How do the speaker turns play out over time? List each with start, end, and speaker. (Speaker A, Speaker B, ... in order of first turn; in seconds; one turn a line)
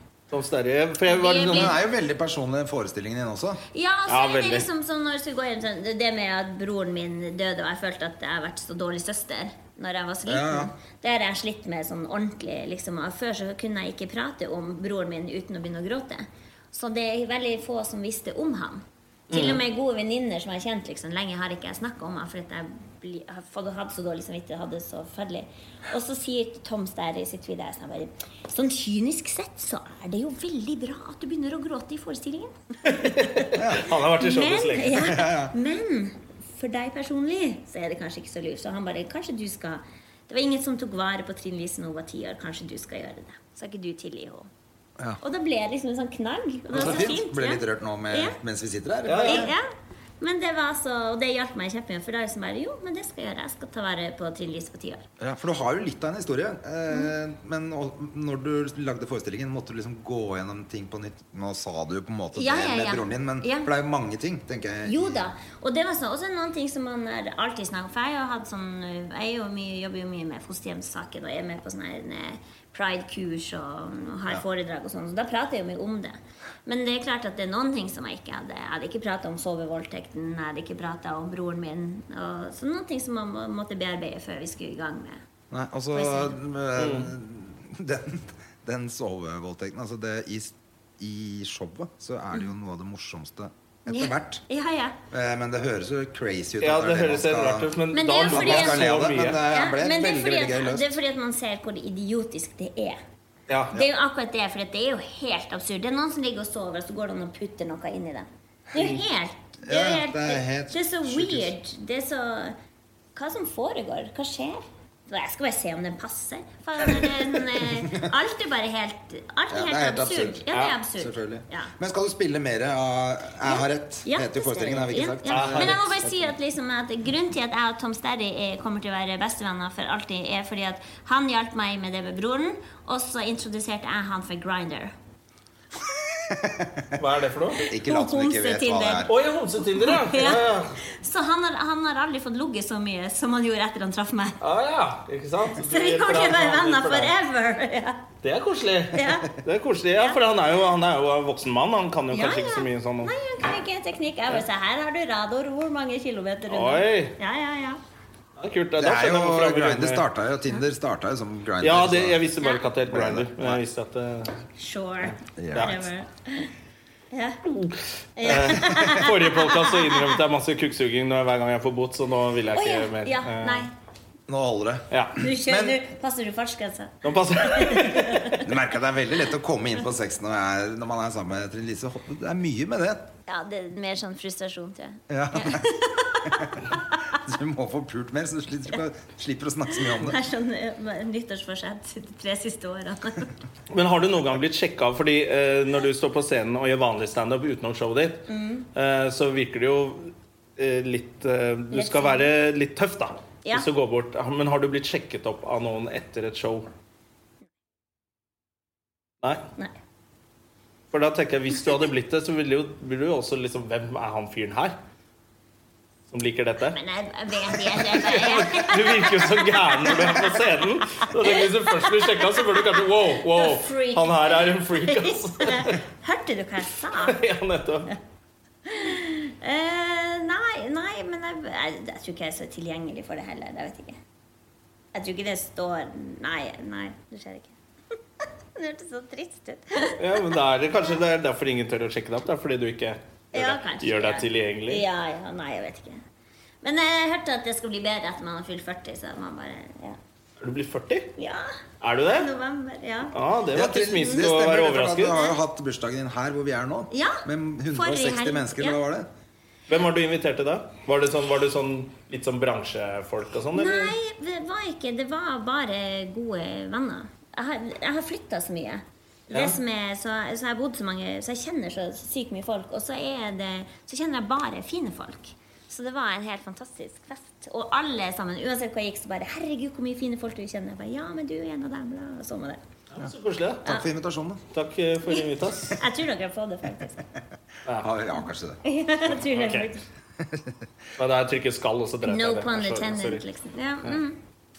Speaker A: 0.3-1.8
Speaker B: 1.1-1.8
Speaker C: 1.4-3.6
Speaker B: 3.7-33.5
Speaker A: 4.1-4.7
Speaker C: 10.3-10.7
Speaker A: 19.3-19.6
Speaker A: 32.9-35.1
Speaker C: 33.6-33.9
Speaker B: 34.2-44.5
Speaker C: 35.0-35.5
Speaker B: 45.2-48.4
Speaker C: 46.7-49.5
Speaker A: 46.8-47.0
Speaker A: 49.0-49.5
Speaker B: 49.2-49.7
Speaker B: 50.2-55.0
Speaker C: 55.2-65.3
Speaker B: 62.4-63.7
Speaker B: 64.8-85.2
Speaker C: 85.5-94.4
Speaker B: 85.9-86.4
Speaker A: 86.8-87.1
Speaker B: 93.9-95.0
Speaker C: 95.1-97.7
Speaker A: 96.6-99.4
Speaker B: 97.9-98.9
Speaker C: 98.3-100.9
Speaker B: 99.5-103.0
Speaker A: 103.5-103.8
Speaker B: 103.7-112.6
Speaker C: 109.6-111.5
Speaker B: 113.2-121.7
Speaker C: 119.5-120.5
Speaker A: 120.5-120.8
Speaker C: 121.0-126.0
Speaker B: 123.4-134.9
Speaker A: 125.3-126.0
Speaker C: 135.8-137.0
Speaker A: 137.0-137.7
Speaker C: 137.6-139.1
Speaker B: 137.8-139.1
Speaker A: 139.1-140.8
Speaker B: 139.8-144.4
Speaker A: 144.4-147.1
Speaker B: 145.6-148.1
Speaker A: 148.2-153.1
Speaker B: 148.9-149.3
Speaker B: 152.1-157.8
Speaker A: 156.5-157.2
Speaker A: 158.4-160.1
Speaker C: 158.8-162.2
Speaker A: 161.6-164.4
Speaker C: 162.9-163.6
Speaker B: 164.6-166.5
Speaker C: 165.4-165.9
Speaker B: 167.1-167.4
Speaker A: 167.5-173.7
Speaker B: 168.2-170.1
Speaker B: 172.5-173.7
Speaker C: 174.3-175.8
Speaker A: 174.9-175.2
Speaker B: 175.2-178.4
Speaker A: 177.0-178.5
Speaker C: 178.4-183.1
Speaker B: 183.3-187.2
Speaker C: 185.1-185.7
Speaker C: 186.2-186.6
Speaker C: 187.1-190.2
Speaker B: 189.7-193.3
Speaker A: 193.7-206.7
Speaker B: 198.3-198.7
Speaker B: 201.7-202.3
Speaker A: 209.2-209.5
Speaker A: 210.9-214.8
Speaker A: 216.1-216.8
Speaker B: 216.7-220.4
Speaker A: 217.5-225.8
Speaker B: 221.0-227.2
Speaker A: 226.9-227.9
Speaker B: 228.7-234.0
Speaker B: 234.9-237.6
Speaker B: 238.6-240.4
Speaker A: 240.0-244.8
Speaker B: 243.3-246.0
Speaker B: 246.6-250.0
Speaker A: 250.4-251.1
Speaker B: 251.2-251.6
Speaker A: 251.8-252.3
Speaker B: 252.1-253.2
Speaker A: 253.1-255.2
Speaker C: 253.5-259.1
Speaker B: 255.1-255.3
Speaker B: 256.9-258.8
Speaker A: 259.7-264.0
Speaker B: 263.5-282.6
Speaker A: 269.3-269.6
Speaker A: 282.9-283.7
Speaker C: 283.6-284.4
Speaker A: 284.5-285.8
Speaker B: 285.1-287.0
Speaker A: 287.7-287.9
Speaker C: 287.8-288.6
Speaker B: 288.6-289.8
Speaker A: 289.2-289.7
Speaker C: 290.2-290.6
Speaker A: 291.0-293.2
Speaker B: 292.0-294.2